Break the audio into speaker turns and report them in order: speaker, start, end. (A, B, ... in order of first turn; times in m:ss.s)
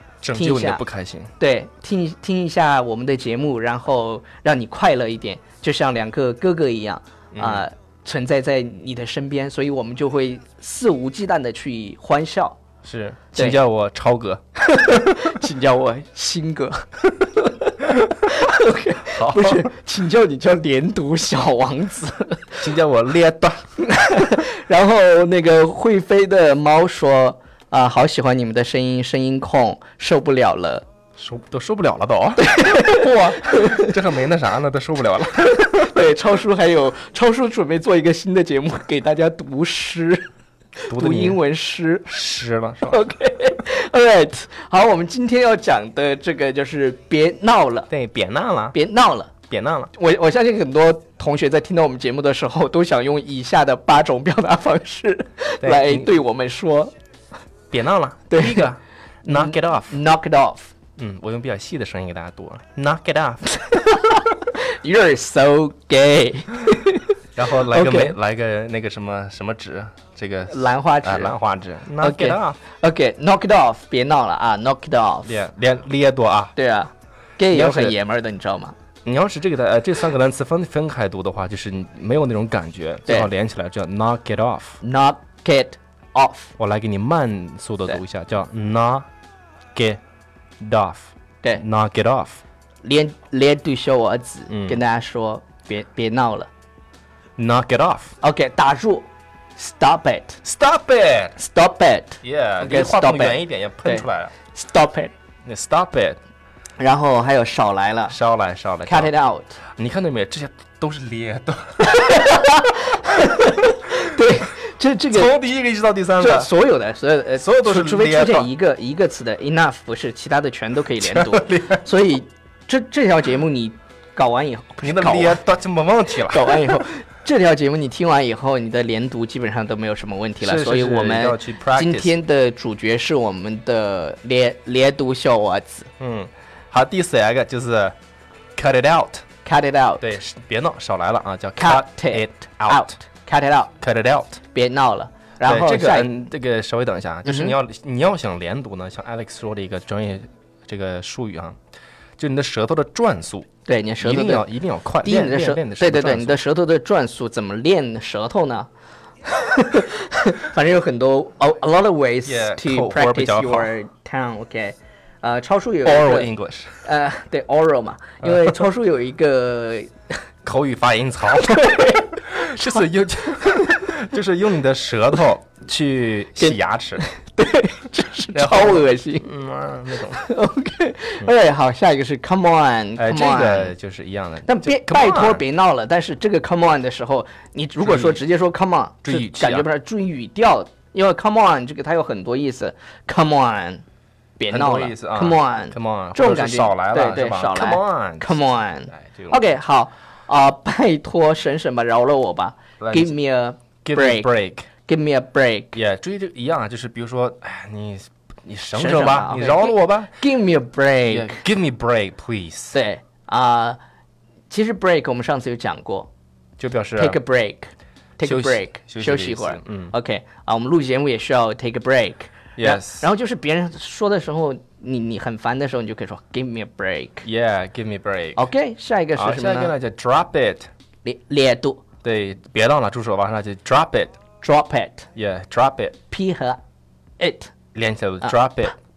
0:00.2-0:01.3 A
0:00.3-0:00.8 B
0:01.4-0:12.6 B
0:07.3-0:07.6 A
0:12.8-0:14.4 A
0:13.3-0:13.6 B
0:14.6-0:22.6 B
0:19.1-0:19.7 A
0:22.6-0:23.7 A
0:23.8-0:30.8 B
0:31.2-0:36.0 A
0:32.4-0:34.0 B
0:35.6-0:40.3 B
0:40.9-0:41.4 A
0:40.9-0:42.1 B
0:42.1-0:43.0 A
0:42.8-0:47.9 B
0:47.9-0:48.8 A
0:48.7-0:49.3 B
0:49.5-0:49.9 A
0:49.9-0:56.9 B
0:55.6-0:56.1 A
0:57.7-1:00.0 A
0:58.3-0:58.7 B
0:59.2-1:00.7 B
1:01.0-1:03.6 A
1:03.6-1:08.2 B
1:07.4-1:12.6 A
1:10.5-1:11.4 B
1:12.0-1:15.3 B
1:15.2-1:16.6 A
1:16.6-1:18.8 B
1:17.5-1:17.9 A
1:19.0-1:24.8 A
1:24.8-1:26.5 B
1:26.6-1:29.1 A
1:29.8-1:30.0 A
1:30.6-1:32.4 A
1:32.8-1:36.5 B
1:34.5-1:34.8 A
1:37.4-1:38.2 A
1:38.2-1:40.4 B
1:40.4-1:41.4 A
1:41.4-1:45.1 B
1:42.2-1:44.3 A
1:45.4-1:46.2 A
1:46.8-1:48.2 B
1:48.1-1:49.1 A
1:48.8-1:49.6 B
1:49.8-1:52.3 A
1:51.8-1:55.4 B
1:55.1-1:56.5 A
1:56.2-2:05.4 B
1:57.4-1:58.5 A
2:01.0-2:01.9 A
2:04.8-2:06.8 A
2:06.2-2:15.9 B
2:10.4-2:12.2 A
2:16.0-2:18.0 A
2:18.6-2:19.2 A
2:19.4-2:20.0 B
2:20.0-2:22.9 A
2:21.6-2:23.7 B
2:23.8-2:24.4 A
2:24.5-2:26.1 B
2:25.4-2:31.6 A
2:27.3-2:27.5 B
2:32.2-2:33.5 A
2:33.7-2:34.5 B
2:34.0-2:36.4 A
2:35.0-2:38.7 B
2:39.2-2:46.3 B
2:42.3-2:43.7 A
2:45.8-2:46.8 A
2:46.8-2:49.9 B
2:48.2-2:48.6 A
2:50.4-2:57.0 A
2:51.5-2:52.8 B
2:56.4-2:59.3 B
2:58.3-3:00.2 A
3:00.1-3:03.7 B
3:03.0-3:05.4 A
3:04.4-3:13.8 B
3:07.8-3:08.2 A
3:09.0-3:09.7 A
3:14.4-3:24.3 B
3:14.5-3:19.4 A
3:22.8-3:23.1 A
3:23.8-3:24.7 A
3:24.9-3:25.8 B
3:25.7-3:30.1 A
3:28.8-3:31.5 B
3:31.1-3:32.8 A
3:32.7-3:33.8 B
3:34.5-3:36.1 B
3:36.6-3:37.2 A
3:37.0-3:47.3 B
3:38.2-3:39.9 A
3:42.6-3:43.1 A
3:47.2-3:48.5 A
3:48.4-3:49.7 B
3:49.2-3:50.7 A
3:51.0-3:51.8 B
3:52.0-3:54.1 A
3:54.4-3:55.1 B
3:55.2-3:56.0 A
3:56.1-3:56.6 B
3:57.2-3:57.5 B
3:57.7-3:58.8 A